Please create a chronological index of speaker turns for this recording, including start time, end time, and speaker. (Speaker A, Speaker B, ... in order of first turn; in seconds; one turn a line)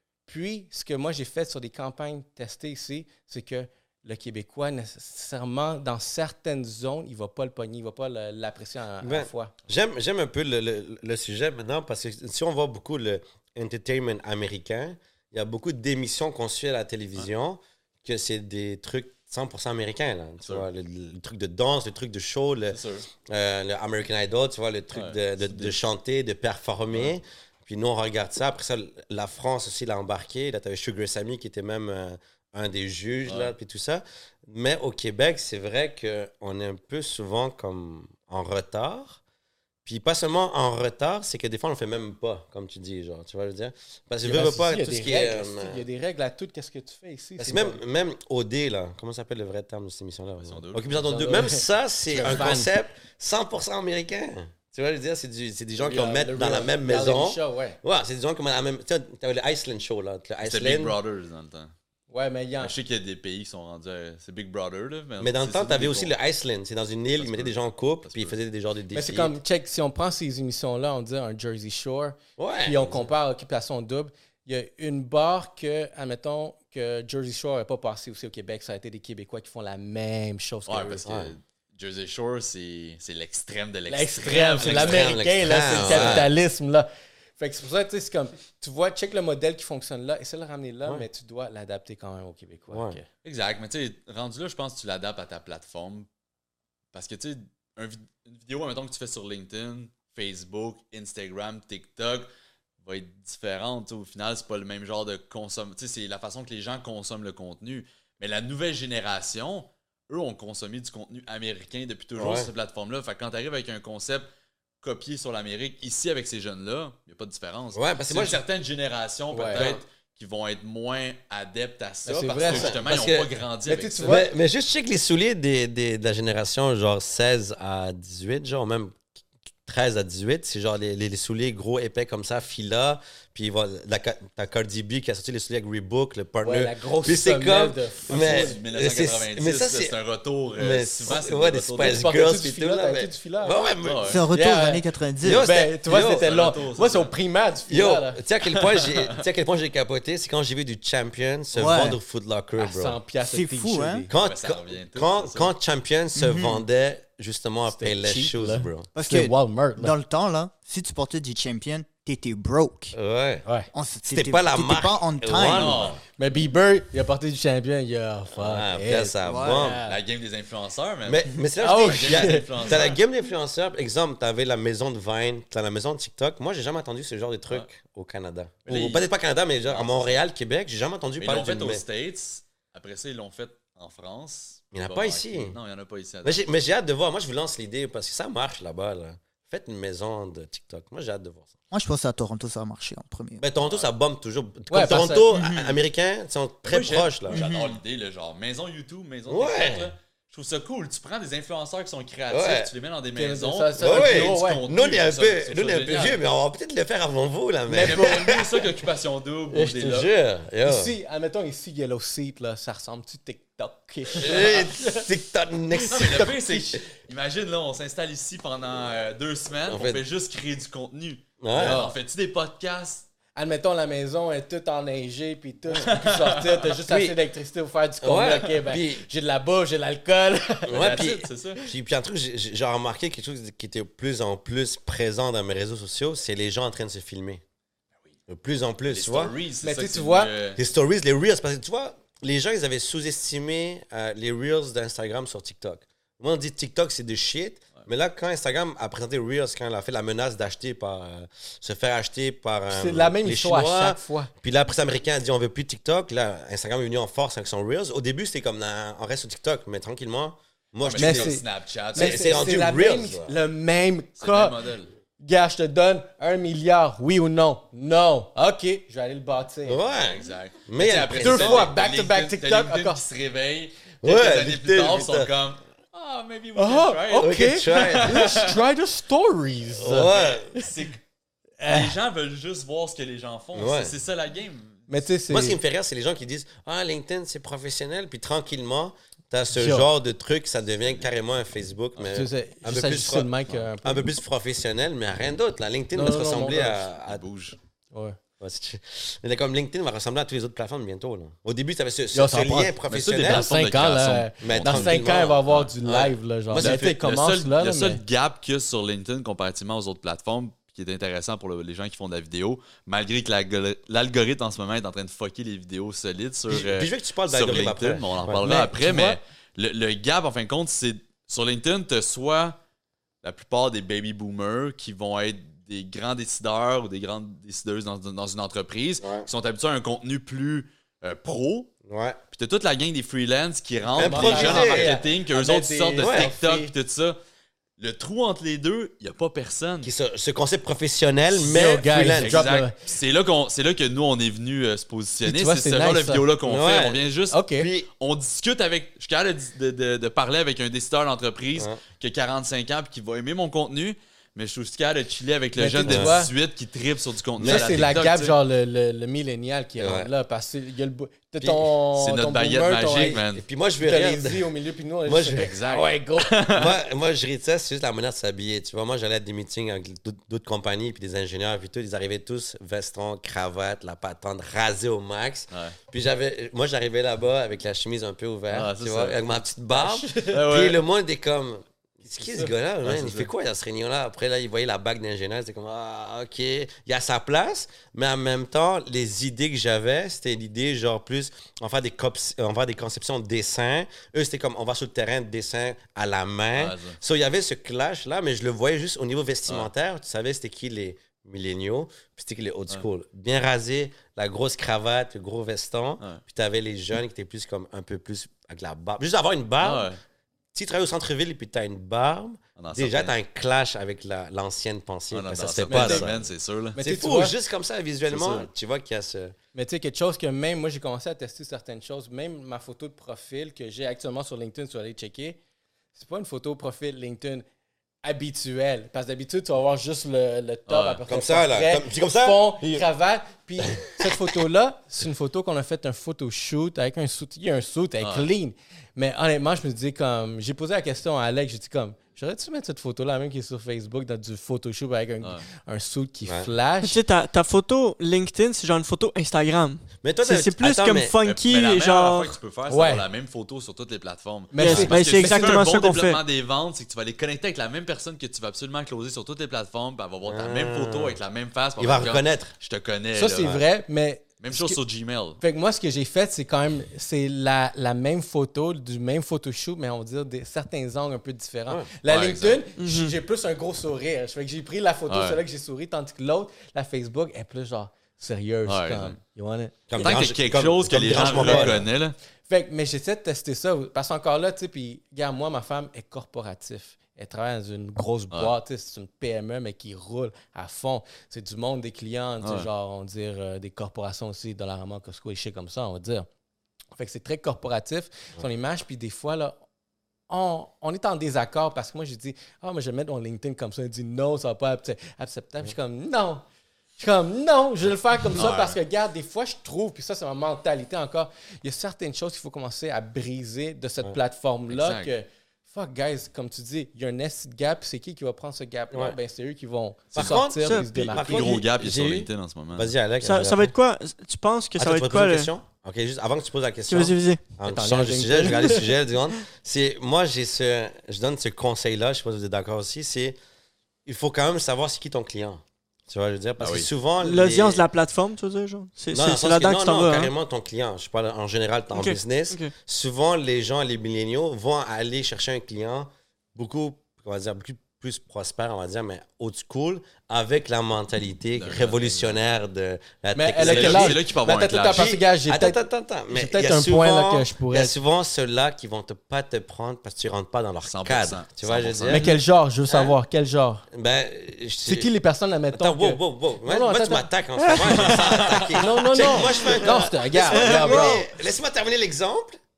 Speaker A: 0.3-9.5
Speaker B: 9.0-39.2
Speaker C: 22.7-23.1
Speaker C: 24.9-25.8
Speaker C: 33.3-33.5
Speaker B: 39.9-45.8
Speaker A: 44.2-47.8
Speaker B: 47.4-61.0
Speaker C: 50.5-51.1
Speaker A: 51.0-52.7
Speaker A: 55.8-57.8
Speaker C: 60.4-61.7
Speaker A: 62.1-62.7
Speaker C: 62.6-66.1
Speaker B: 65.2-69.4
Speaker C: 67.2-68.4
Speaker A: 68.9-81.1
Speaker B: 72.4-73.1
Speaker C: 80.7-85.1
Speaker B: 81.1-81.3
Speaker A: 83.9-93.0
Speaker B: 84.6-86.3
Speaker C: 85.7-86.3
Speaker B: 92.7-93.0
Speaker C: 93.2-96.1
Speaker C: 96.9-102.3
Speaker C: 102.8-114.3
Speaker B: 112.2-112.5
Speaker C: 114.8-124.2
Speaker B: 117.7-118.4
Speaker A: 119.3-119.7
Speaker B: 119.3-119.8
Speaker A: 122.1-122.8
Speaker B: 122.5-123.3
Speaker A: 123.7-124.3
Speaker B: 124.0-129.1
Speaker B: 129.7-139.9
Speaker A: 136.4-138.6
Speaker C: 138.1-142.1
Speaker B: 140.6-144.2
Speaker A: 141.8-143.6
Speaker C: 143.8-144.2
Speaker D: 144.1-145.5
Speaker A: 144.3-144.8
Speaker B: 145.2-146.3
Speaker A: 145.4-148.2
Speaker C: 145.9-147.1
Speaker B: 147.7-153.0
Speaker C: 148.5-149.1
Speaker D: 151.5-152.0
Speaker A: 152.6-154.1
Speaker D: 153.2-154.1
Speaker B: 154.1-158.9
Speaker C: 154.2-155.5
Speaker D: 156.2-156.6
Speaker A: 157.7-159.9
Speaker D: 158.9-162.9
Speaker B: 162.9-163.4
Speaker A: 163.4-163.7
Speaker D: 163.7-165.9
Speaker B: 164.1-166.0
Speaker C: 165.5-166.0
Speaker A: 166.2-170.0
Speaker B: 168.3-169.8
Speaker D: 169.3-169.6
Speaker C: 169.8-173.0
Speaker B: 171.1-181.8
Speaker A: 171.6-172.7
Speaker C: 178.7-179.1
Speaker C: 179.7-180.2
Speaker C: 181.2-186.4
Speaker B: 184.7-185.6
Speaker B: 186.2-191.6
Speaker D: 191.7-193.4
Speaker B: 193.4-197.5
Speaker C: 193.6-193.9
Speaker A: 194.7-195.3
Speaker C: 196.7-206.2
Speaker D: 197.4-197.6
Speaker B: 199.3-199.9
Speaker B: 202.3-202.7
Speaker A: 203.2-204.6
Speaker B: 203.8-208.8
Speaker C: 207.7-210.1
Speaker B: 209.5-210.9
Speaker A: 210.6-215.1
Speaker B: 214.1-216.3
Speaker C: 214.2-214.7
Speaker A: 215.8-216.8
Speaker C: 215.9-223.1
Speaker B: 219.7-220.0
Speaker B: 221.4-221.9
Speaker A: 223.3-231.1
Speaker C: 225.7-226.7
Speaker B: 226.9-227.2
Speaker B: 228.0-229.1
Speaker B: 230.7-237.4
Speaker C: 230.8-231.6
Speaker B: 238.3-239.3
Speaker C: 238.9-240.6
Speaker A: 239.6-240.3
Speaker B: 240.6-261.4
Speaker A: 252.7-254.3
Speaker C: 260.9-262.4
Speaker A: 260.9-264.6
Speaker B: 261.9-263.3
Speaker C: 264.2-264.9
Speaker A: 265.2-269.8
Speaker B: 269.7-271.7
Speaker C: 270.0-278.6
Speaker A: 271.2-273.0
Speaker B: 274.0-275.3
Speaker A: 276.6-280.7
Speaker B: 277.2-278.2
Speaker B: 279.8-280.5
Speaker C: 280.0-281.0
Speaker A: 281.6-281.9
Speaker C: 281.7-285.1
Speaker B: 283.6-283.9
Speaker A: 284.9-285.6
Speaker B: 285.3-293.3
Speaker A: 289.5-289.9
Speaker A: 292.1-294.1
Speaker B: 293.8-297.2
Speaker A: 295.9-296.8
Speaker C: 297.0-297.6
Speaker A: 297.9-298.2
Speaker B: 298.4-303.5
Speaker A: 302.1-308.0
Speaker C: 302.9-306.0
Speaker B: 304.4-306.9
Speaker C: 306.6-322.6
Speaker B: 316.5-318.4
Speaker A: 318.4-319.2
Speaker C: 323.2-331.7
Speaker B: 329.0-329.3
Speaker B: 331.9-332.2
Speaker C: 332.3-337.2
Speaker B: 334.0-334.9
Speaker A: 334.0-336.7
Speaker B: 336.0-336.3
Speaker C: 337.8-339.9
Speaker B: 339.8-342.4
Speaker A: 341.4-342.8
Speaker C: 342.2-347.4
Speaker A: 345.2-346.2
Speaker B: 346.5-347.0
Speaker A: 347.3-347.7
Speaker B: 347.6-347.9
Speaker C: 348.0-358.4
Speaker A: 355.6-356.3
Speaker B: 355.9-356.2
Speaker B: 357.4-357.9
Speaker A: 357.4-363.2
Speaker B: 359.8-360.1
Speaker C: 361.4-363.4
Speaker B: 363.0-364.5
Speaker A: 363.8-366.3
Speaker B: 365.1-409.9
Speaker C: 365.4-366.8
Speaker C: 375.5-375.8
Speaker C: 378.5-379.2
Speaker A: 379.8-380.3
Speaker C: 380.2-380.8
Speaker C: 382.8-383.3
Speaker C: 396.6-397.0
Speaker C: 409.6-410.0
Speaker B: 410.5-416.3
Speaker C: 412.6-413.1
Speaker C: 415.1-416.8
Speaker A: 415.7-416.1
Speaker A: 416.8-417.4
Speaker B: 416.8-419.4
Speaker C: 418.1-418.5
Speaker A: 419.5-425.4
Speaker A: 425.9-427.4
Speaker A: 428.0-447.0
Speaker C: 430.7-431.0
Speaker B: 431.1-432.9
Speaker B: 433.6-434.1
Speaker C: 438.0-438.3
Speaker E: 446.8-452.4
Speaker B: 450.0-451.1
Speaker C: 451.2-463.6
Speaker A: 452.7-453.0
Speaker A: 454.5-455.6
Speaker E: 454.6-456.2
Speaker B: 460.3-461.2
Speaker B: 461.8-462.5
Speaker A: 463.1-464.8
Speaker C: 464.4-465.4
Speaker A: 465.4-479.8
Speaker C: 472.1-472.6
Speaker E: 472.8-473.2
Speaker C: 475.1-475.4
Speaker C: 478.7-479.2
Speaker B: 479.9-481.9
Speaker C: 480.0-482.1
Speaker A: 481.4-481.8
Speaker A: 482.5-496.3
Speaker C: 492.4-492.7
Speaker A: 496.9-499.6
Speaker A: 500.3-506.4
Speaker A: 507.0-521.5
Speaker C: 508.4-508.8
Speaker C: 514.7-515.1
Speaker B: 518.9-519.2
Speaker C: 520.1-520.5
Speaker B: 520.1-523.7
Speaker C: 521.0-522.9
Speaker E: 523.2-525.5
Speaker B: 524.8-533.4
Speaker E: 526.9-527.4
Speaker A: 527.6-528.9
Speaker B: 534.1-537.9
Speaker C: 536.6-536.9
Speaker E: 537.2-540.3
Speaker B: 539.1-554.2
Speaker E: 541.9-542.7
Speaker C: 551.6-552.4
Speaker A: 553.4-555.8
Speaker C: 553.6-555.2
Speaker B: 554.9-562.2
Speaker A: 556.3-557.9
Speaker C: 560.9-562.3
Speaker A: 562.1-563.9
Speaker B: 562.9-563.1
Speaker B: 563.9-565.1
Speaker A: 564.9-567.3
Speaker B: 565.7-572.6
Speaker C: 567.8-568.8
Speaker A: 568.7-571.2
Speaker E: 570.7-571.2